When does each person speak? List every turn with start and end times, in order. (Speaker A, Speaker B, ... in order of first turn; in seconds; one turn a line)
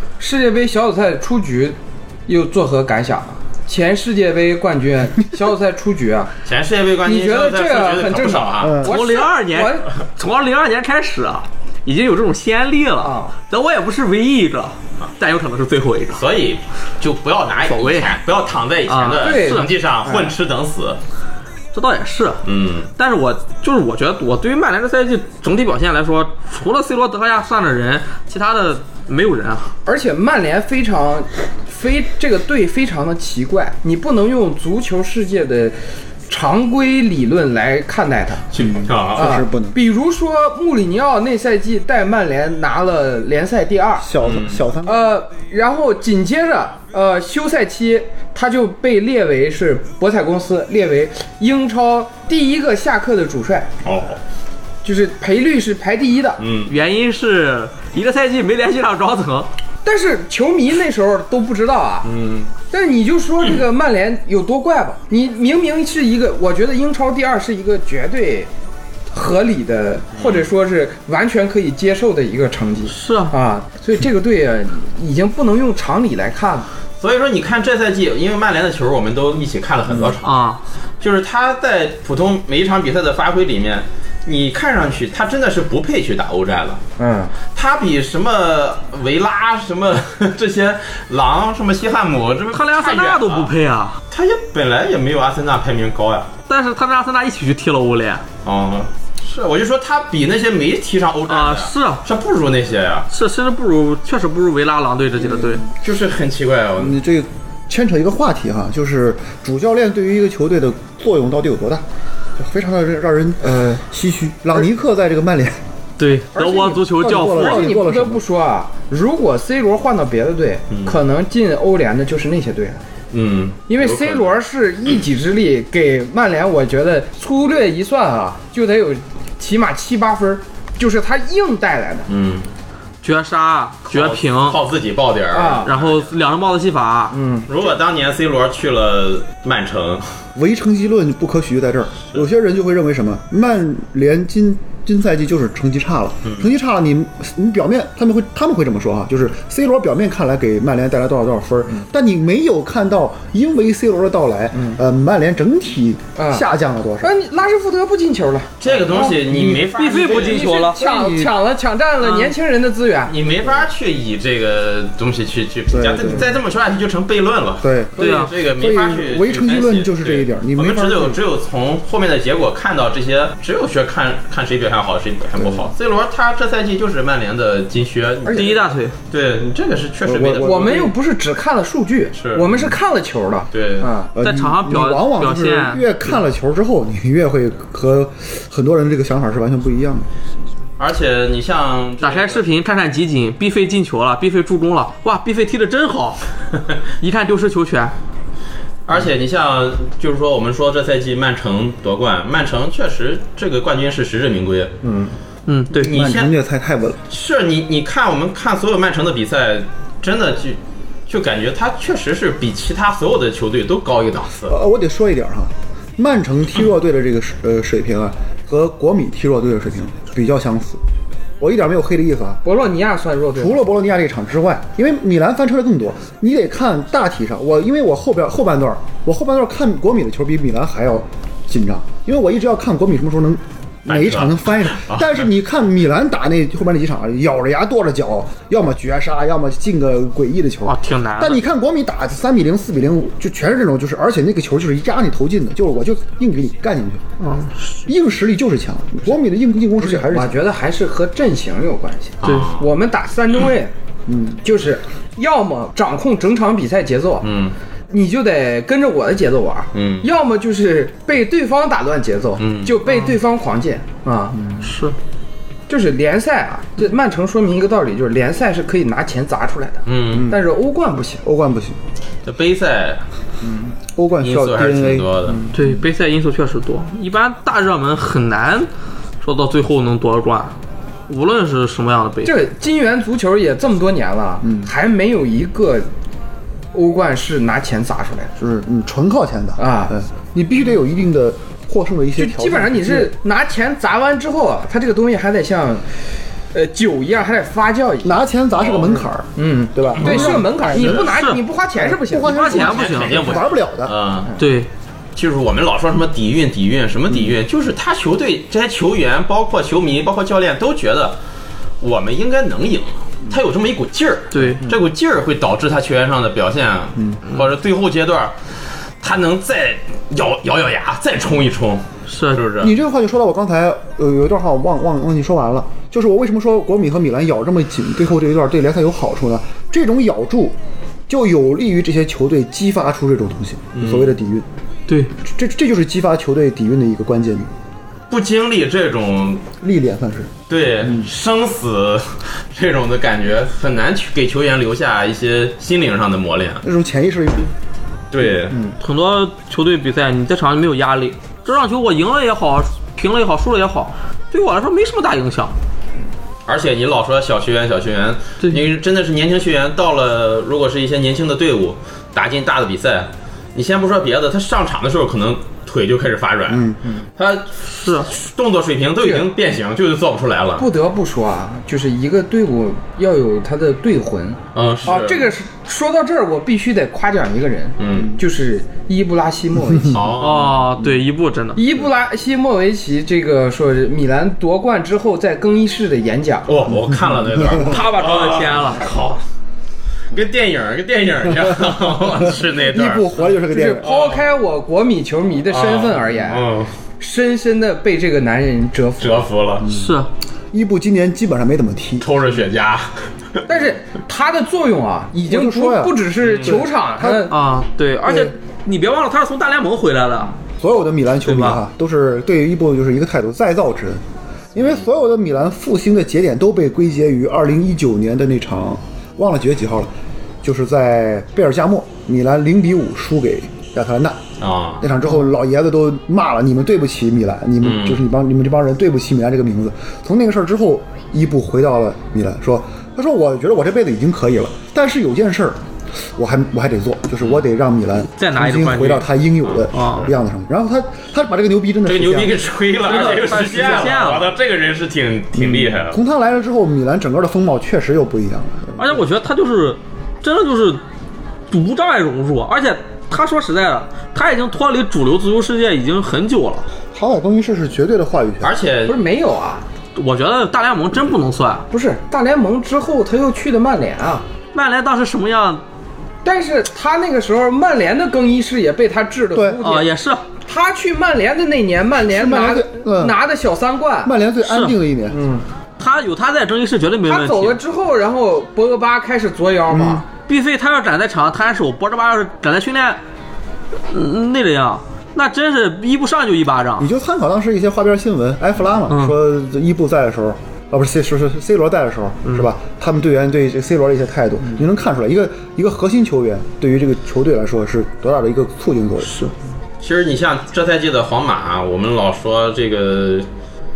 Speaker A: 0.2-6.3
Speaker B: 6.5-8.8
Speaker A: 7.0-9.9
Speaker C: 8.6-9.0
Speaker D: 8.8-16.2
Speaker A: 13.0-13.3
Speaker B: 16.1-21.0
Speaker D: 17.6-18.1
Speaker D: 18.9-19.7
Speaker A: 19.2-20.3
Speaker D: 21.7-22.4
Speaker B: 22.4-22.9
Speaker D: 23.0-29.7
Speaker A: 29.9-38.5
Speaker B: 38.5-39.4
Speaker C: 38.6-39.8
Speaker A: 39.1-44.1
Speaker C: 44.0-45.1
Speaker B: 44.2-44.6
Speaker A: 44.8-53.7
Speaker B: 53.8-54.2
Speaker A: 54.8-56.4
Speaker B: 56.4-56.8
Speaker D: 56.7-59.5
Speaker A: 59.8-62.1
Speaker B: 62.0-62.5
Speaker A: 62.7-68.5
Speaker A: 69.1-76.7
Speaker B: 70.2-70.5
Speaker D: 72.9-73.3
Speaker B: 77.0-80.4
Speaker D: 80.2-80.6
Speaker B: 81.0-86.8
Speaker A: 87.0-87.3
Speaker B: 87.5-93.5
Speaker D: 92.5-94.0
Speaker B: 94.1-96.3
Speaker D: 96.5-98.2
Speaker B: 98.4-103.1
Speaker D: 101.3-102.0
Speaker D: 103.1-105.6
Speaker C: 105.2-105.7
Speaker B: 105.8-107.0
Speaker C: 106.8-111.8
Speaker C: 112.4-115.6
Speaker A: 113.4-113.8
Speaker D: 116.0-117.7
Speaker A: 116.4-122.8
Speaker C: 116.6-118.2
Speaker B: 120.7-121.0
Speaker B: 123.1-124.3
Speaker A: 123.7-132.1
Speaker B: 132.1-132.5
Speaker D: 133.0-134.6
Speaker B: 133.9-136.1
Speaker A: 135.3-135.7
Speaker D: 135.6-137.2
Speaker A: 137.1-137.5
Speaker B: 137.5-140.1
Speaker C: 140.3-157.1
Speaker A: 154.5-154.8
Speaker A: 156.2-156.4
Speaker A: 157.0-159.2
Speaker B: 158.6-160.5
Speaker C: 159.1-161.3
Speaker D: 159.7-160.8
Speaker A: 160.0-163.1
Speaker B: 163.1-180.9
Speaker C: 165.7-166.3
Speaker C: 167.6-171.2
Speaker D: 168.0-168.3
Speaker C: 175.4-175.6
Speaker A: 178.2-178.6
Speaker D: 178.3-178.9
Speaker C: 180.1-180.8
Speaker A: 180.4-184.1
Speaker B: 182.1-182.5
Speaker B: 183.5-183.9
Speaker C: 184.1-190.1
Speaker D: 184.2-185.9
Speaker B: 190.8-192.4
Speaker D: 192.0-196.2
Speaker D: 197.0-197.9
Speaker B: 198.9-204.8
Speaker A: 204.8-205.1
Speaker D: 205.5-205.9
Speaker C: 205.7-207.0
Speaker B: 205.8-206.3
Speaker B: 207.1-214.6
Speaker C: 214.5-220.8
Speaker C: 221.4-222.4
Speaker A: 222.4-223.6
Speaker C: 223.4-247.0
Speaker B: 233.9-235.2
Speaker D: 240.7-241.4
Speaker D: 247.2-247.8
Speaker C: 247.9-250.4
Speaker A: 249.8-253.7
Speaker B: 252.2-252.7
Speaker D: 252.2-252.5
Speaker C: 254.1-254.4
Speaker A: 254.4-257.3
Speaker B: 257.2-257.6
Speaker A: 257.9-264.4
Speaker B: 259.7-260.1
Speaker B: 262.4-262.8
Speaker D: 264.6-265.0
Speaker A: 265.7-271.2
Speaker B: 269.9-270.3
Speaker C: 270.1-270.4
Speaker C: 271.2-271.8
Speaker B: 272.2-273.0
Speaker C: 273.8-275.8
Speaker B: 274.2-275.4
Speaker D: 275.5-278.7
Speaker D: 279.2-280.6
Speaker D: 281.1-282.3
Speaker A: 282.2-285.9
Speaker C: 284.4-284.7
Speaker A: 286.7-288.3
Speaker C: 288.4-293.1
Speaker A: 289.6-289.9
Speaker A: 292.2-298.2
Speaker C: 298.0-301.1
Speaker B: 298.6-299.0
Speaker A: 299.4-302.6
Speaker D: 300.9-301.4
Speaker C: 301.8-304.0
Speaker D: 302.2-303.3
Speaker B: 302.5-304.4
Speaker D: 304.4-304.7
Speaker B: 305.2-311.2
Speaker B: 311.8-322.8
Speaker D: 314.3-314.6
Speaker D: 322.1-322.4
Speaker C: 322.6-330.6
Speaker C: 331.1-334.5
Speaker B: 333.8-334.1
Speaker D: 334.9-335.1
Speaker C: 335.2-337.5
Speaker B: 338.1-339.5
Speaker C: 339.6-341.1
Speaker B: 340.5-346.6
Speaker C: 346.6-347.5
Speaker B: 348.1-348.6
Speaker C: 348.5-348.7
Speaker D: 348.8-355.6
Speaker B: 356.5-370.7
Speaker C: 366.5-366.8
Speaker D: 367.7-368.1
Speaker A: 369.0-369.3
Speaker A: 370.6-380.0
Speaker B: 374.5-375.3
Speaker B: 377.8-378.2
Speaker B: 379.9-380.7
Speaker D: 380.2-381.6
Speaker A: 381.6-386.5
Speaker B: 386.5-389.2
Speaker C: 387.4-387.8
Speaker D: 387.6-388.9
Speaker B: 390.1-393.1
Speaker C: 392.2-393.9
Speaker A: 393.5-396.5
Speaker B: 393.8-394.2
Speaker B: 395.5-396.7
Speaker A: 397.0-399.2
Speaker B: 399.0-399.7
Speaker C: 399.6-400.0
Speaker D: 399.7-400.1
Speaker C: 400.5-402.1
Speaker B: 402.0-403.4
Speaker A: 403.5-407.4
Speaker C: 405.2-407.2
Speaker B: 406.2-406.6
Speaker D: 407.1-410.4
Speaker C: 410.6-419.9
Speaker D: 411.2-411.6
Speaker C: 420.4-424.2
Speaker B: 424.4-424.9
Speaker C: 424.8-435.6
Speaker B: 427.6-428.0
Speaker C: 436.1-442.5
Speaker D: 438.2-439.1
Speaker B: 439.5-440.1
Speaker D: 439.7-440.1
Speaker B: 441.9-446.0
Speaker D: 442.8-444.3
Speaker C: 443.2-443.9
Speaker C: 445.4-449.0
Speaker D: 448.8-450.8
Speaker D: 451.5-456.7
Speaker C: 456.9-458.6
Speaker B: 458.4-459.0
Speaker A: 458.9-459.6
Speaker D: 459.9-461.7
Speaker A: 461.7-464.2
Speaker D: 464.5-465.6
Speaker A: 466.2-469.9
Speaker C: 469.3-469.6
Speaker D: 469.6-470.3
Speaker A: 470.4-474.1
Speaker C: 472.1-473.2
Speaker C: 474.0-475.2
Speaker D: 474.4-474.8
Speaker A: 475.1-475.4
Speaker D: 475.8-477.6
Speaker A: 477.1-480.1
Speaker C: 479.7-480.0
Speaker D: 480.2-483.0
Speaker D: 483.9-486.9
Speaker C: 486.8-499.1
Speaker D: 488.9-489.2
Speaker B: 499.8-503.3